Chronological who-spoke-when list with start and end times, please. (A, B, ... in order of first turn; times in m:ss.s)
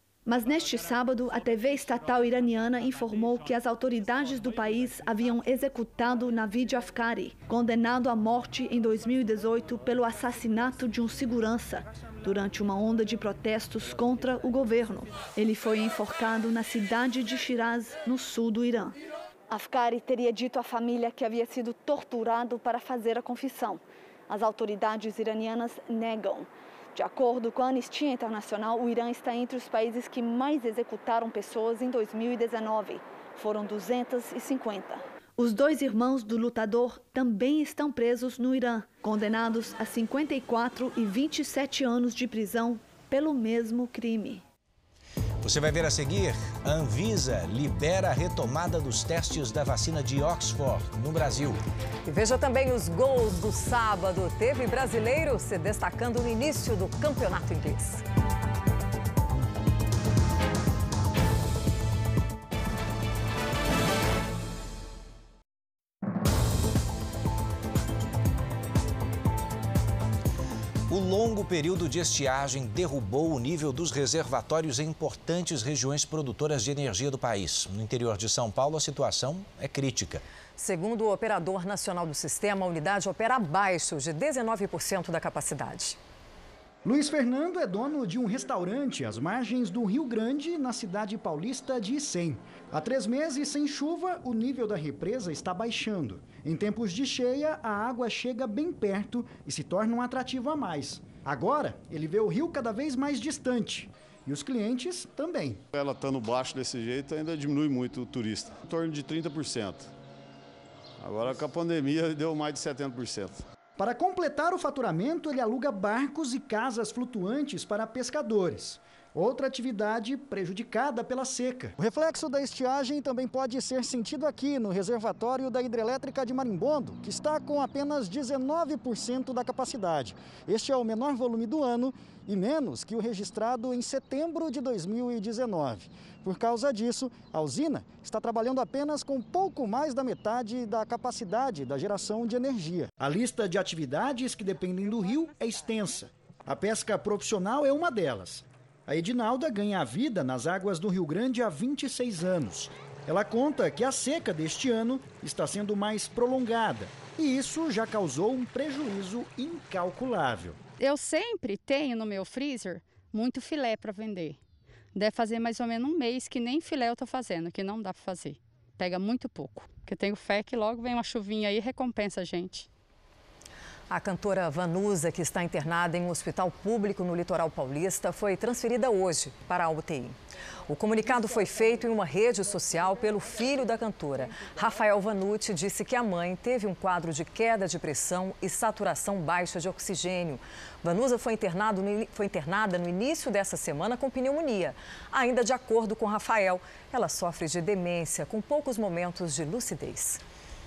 0:00.3-0:19.0 A
0:19.5-0:44.4 A
0:45.4-0:51.6 B
0:52.1-0:58.0 C
1:10.9-1:20.2 B
1:20.6-1:26.0 C
1:26.8-1:45.6 D
1:45.7-1:49.9 E
1:51.0-1:53.5 E
1:53.8-2:40.6 D
2:40.8-2:44.4 F
2:45.0-2:52.6 F
2:53.9-3:00.2 C
3:00.7-3:20.2 C